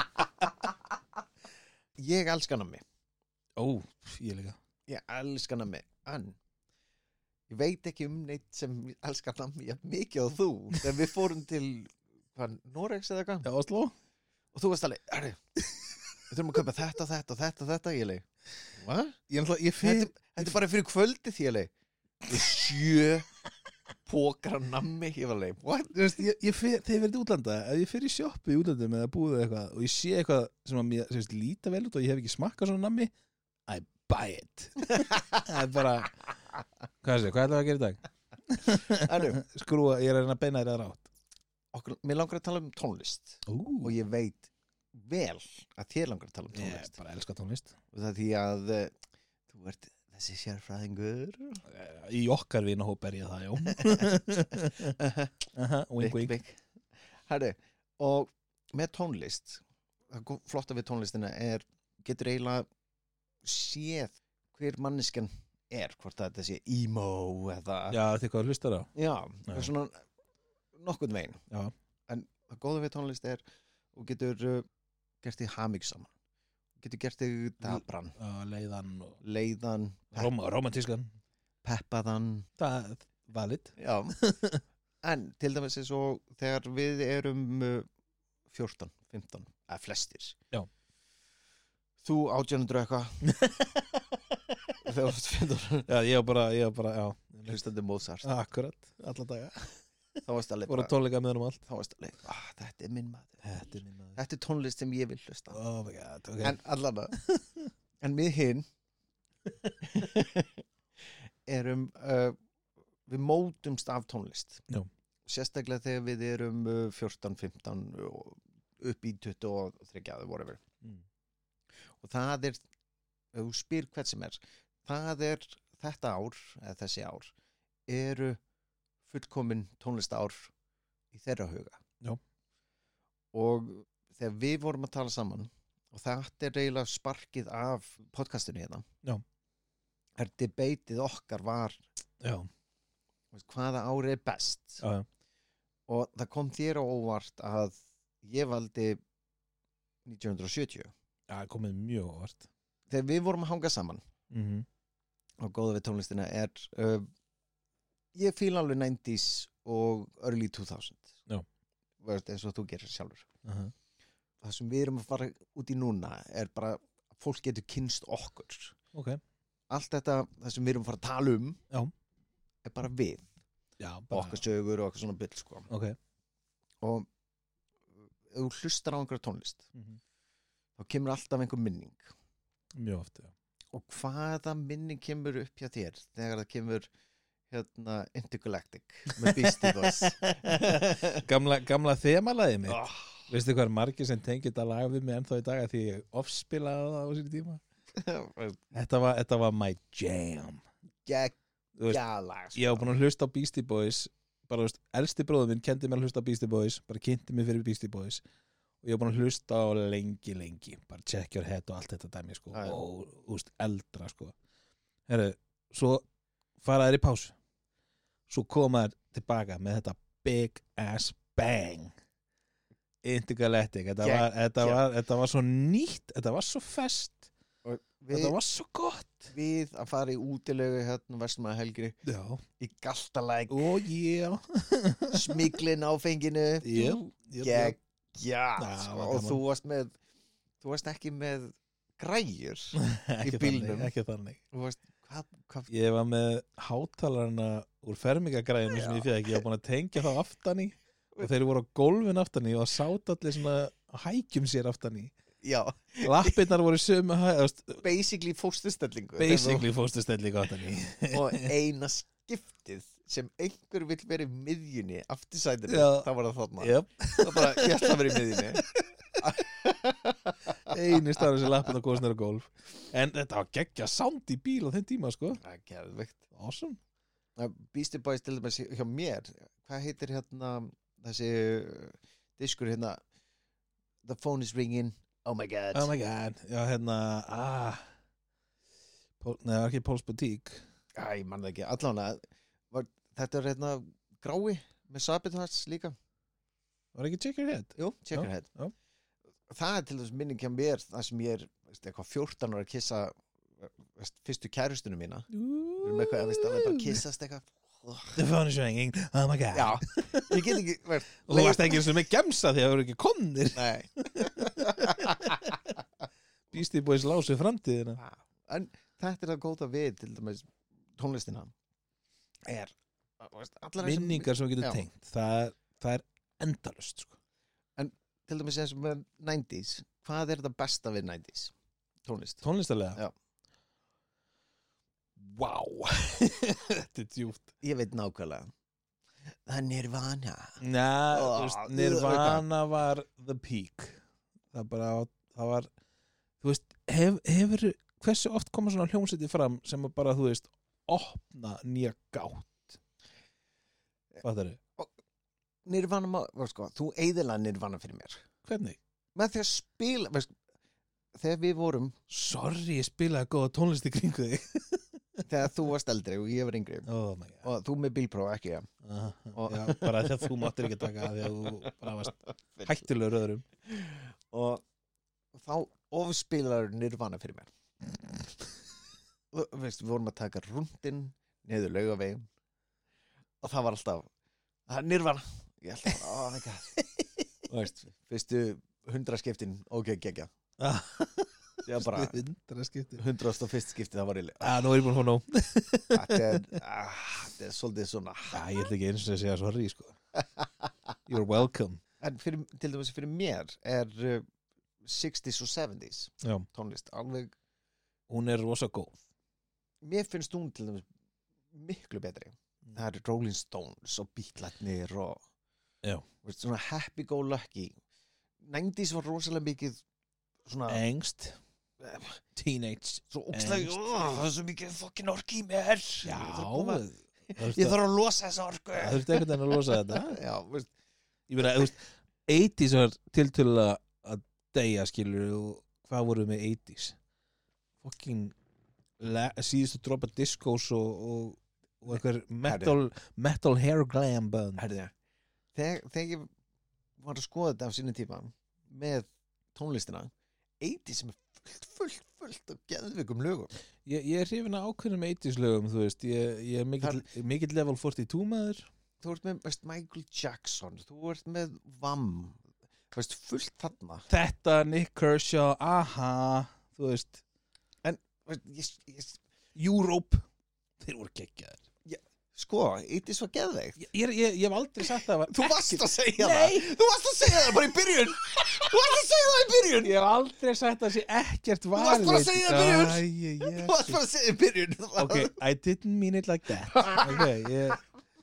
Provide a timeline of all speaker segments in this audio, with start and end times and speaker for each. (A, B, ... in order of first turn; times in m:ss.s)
0:02.0-0:02.8 A
0:03.6-0:04.6 B
0:04.9-0:06.4 A
0:07.5-0:13.5 A
0:13.4-0:13.9 B
0:14.5-0:15.4 A
0:16.3-0:19.2 A
0:19.3-0:20.6 B
0:19.8-0:21.7 A
0:22.2-0:23.3 A
0:24.1-0:26.0 A
0:25.9-0:33.1 B
0:33.7-0:36.2 B
0:37.0-0:41.1 B
0:39.0-0:39.4 A
0:41.7-0:47.0 A
0:43.4-0:44.0 B
0:46.5-0:47.8 B
0:47.9-0:49.0 A
0:49.5-0:51.6 A
0:51.7-0:55.0 B
0:53.6-0:55.4 A
0:55.5-0:56.4 B
0:56.0-0:56.6 A
0:57.2-1:02.7 A
1:03.4-1:08.0 A
1:07.9-1:08.9 B
1:09.0-1:10.0 A
1:10.8-1:11.4 A
1:12.1-1:13.4 A
1:13.9-1:14.7 A
1:15.2-1:16.1 A
1:16.8-1:18.2 A
1:17.6-1:19.2 B
1:19.2-1:20.3 A
1:20.1-1:21.1 B
1:21.6-1:22.5 A
1:22.6-1:24.6 B
1:23.8-1:24.2 A
1:25.0-1:27.9 A
1:28.5-1:30.4 A
1:32.0-1:33.2 A
1:33.3-1:34.0 B
1:34.8-1:35.9 A
1:35.9-1:37.6 B
1:37.5-1:38.3 A
1:38.2-1:39.8 B
1:40.2-1:40.9 A
1:40.7-1:41.6 B
1:41.7-1:43.4 A
1:43.4-1:44.2 B
1:44.2-1:45.6 A
1:45.5-1:46.6 B
1:46.4-1:47.2 A
1:47.1-1:47.7 B
1:48.0-1:48.7 A
1:49.8-1:50.6 A
1:51.5-1:52.4 A
1:53.1-1:54.6 A
1:55.3-2:00.6 A
2:01.9-2:02.6 A
2:03.3-2:07.3 A
2:07.9-2:08.4 A
2:09.1-2:10.5 A
2:11.1-2:11.8 A
2:13.3-2:18.8 A
2:20.2-2:21.8 A
2:22.2-2:22.5 B
2:23.3-2:24.8 A
2:24.8-2:25.1 B
2:25.9-2:29.0 A
2:30.0-2:30.9 A
2:31.3-2:32.5 B
2:32.9-2:34.0 A
2:34.3-2:34.7 B
2:35.4-2:37.1 A
2:38.1-2:41.2 A
2:42.0-2:43.3 A
2:43.4-2:43.7 B
2:44.4-2:48.8 A
2:48.9-2:49.2 B
2:49.7-2:51.6 A
2:52.6-2:53.3 A
2:53.8-2:54.4 B
2:54.1-2:55.7 A
2:55.7-2:56.0 B
2:56.8-2:57.1 A
2:58.3-2:59.7 A
3:00.8-3:02.1 A
3:02.8-3:03.3 B
3:03.7-3:06.9 A
3:07.5-3:11.2 A
3:09.1-3:17.6 B
3:12.7-3:13.3 A
3:17.9-3:18.6 A
3:18.7-3:20.6 B
3:21.1-3:21.4 A
3:21.8-3:22.0 B
3:21.9-3:22.9 A
3:22.5-3:28.2 B
3:28.8-3:34.4 B
3:32.5-3:32.8 A
3:35.1-3:36.0 B
3:36.6-3:37.4 B
3:38.3-3:41.9 B
3:43.0-3:47.3 B
3:44.0-3:44.8 A
3:47.6-3:48.4 A
3:48.1-3:49.3 B
3:49.3-3:52.0 A
3:52.0-3:52.4 B
3:52.6-3:53.7 A
3:53.5-3:55.6 B
3:55.1-4:00.0 A
3:56.6-3:57.8 B
3:58.6-3:59.4 B
4:00.6-4:03.9 A
4:02.8-4:04.4 B
4:04.5-4:05.7 A
4:05.7-4:15.1 B
4:08.7-4:09.4 A
4:15.4-4:16.4 A
4:16.0-4:17.8 B
4:17.8-4:19.7 A
4:19.2-4:21.5 B
4:21.1-4:28.6 A
4:25.7-4:28.8 B
4:29.2-4:31.5 A
4:30.7-4:35.4 B
4:35.4-4:36.2 A
4:36.3-4:36.8 B
4:37.4-4:43.0 A
4:44.0-4:45.9 A
4:45.7-4:47.8 B
4:49.2-4:50.6 B
4:51.0-4:56.0 A
4:57.0-4:58.7 B
4:57.8-4:58.5 A
4:59.5-5:08.2 A
5:05.3-5:07.0 B
5:08.2-5:10.6 B
5:09.5-5:11.9 A
5:11.2-5:15.6 B
5:13.6-5:15.5 A
5:16.5-5:18.0 B
5:18.0-5:21.5 A
5:22.5-5:24.8 A
5:23.8-5:27.2 B
5:27.8-5:31.5 A
5:32.1-5:33.1 A
5:32.4-5:33.0 B
5:35.2-5:37.5 B
5:37.6-5:38.5 A
5:39.5-5:40.6 A
5:40.6-5:44.0 B
5:41.1-5:42.4 A
5:44.5-5:45.7 B
5:46.4-5:52.8 B
5:54.2-5:54.6 B
5:55.6-5:58.2 A
5:58.4-5:58.8 B
5:59.2-6:00.3 A
6:01.2-6:02.0 A
6:02.1-6:05.2 B
6:05.3-6:06.9 A
6:06.9-6:07.5 B
6:07.4-6:08.7 A
6:08.8-6:13.4 B
6:09.4-6:11.7 A
6:12.6-6:12.8 A
6:13.6-6:14.6 A
6:15.3-6:17.5 A
6:19.3-6:22.3 A
6:23.4-6:24.1 A
6:24.7-6:26.8 A
6:27.5-6:30.3 A
6:30.6-6:33.0 B
6:31.6-6:32.2 A
6:33.0-6:34.6 A
6:34.4-6:36.6 B
6:35.9-6:38.4 A
6:38.3-6:40.0 B
6:41.1-6:41.8 B
6:42.0-6:44.2 A
6:44.8-6:47.3 A
6:48.1-6:49.0 B
6:49.8-6:50.9 A
6:51.5-6:55.2 A
6:56.2-6:57.8 A
6:58.4-6:59.8 A
7:00.5-7:00.8 A
7:00.7-7:01.4 B
7:01.8-7:02.2 A
7:02.4-7:03.8 B
7:03.1-7:10.7 A
7:06.0-7:07.8 B
7:08.8-7:10.2 B
7:11.3-7:17.0 B
7:17.8-7:18.3 B
7:19.0-7:24.6 B
7:21.9-7:22.8 A
7:24.6-7:24.9 A
7:25.5-7:26.3 A
7:27.0-7:33.5 A
7:33.9-7:38.7 B
7:39.0-7:42.4 A
7:42.9-7:44.1 A
7:44.1-7:47.2 B
7:47.8-7:49.2 A
7:49.6-7:50.2 B
7:50.8-7:51.6 B
7:51.8-7:53.8 A
7:53.8-7:56.7 B
7:55.3-7:59.9 A
7:59.8-8:04.0 B
8:01.8-8:05.3 A
8:05.0-8:07.8 B
8:06.9-8:07.2 A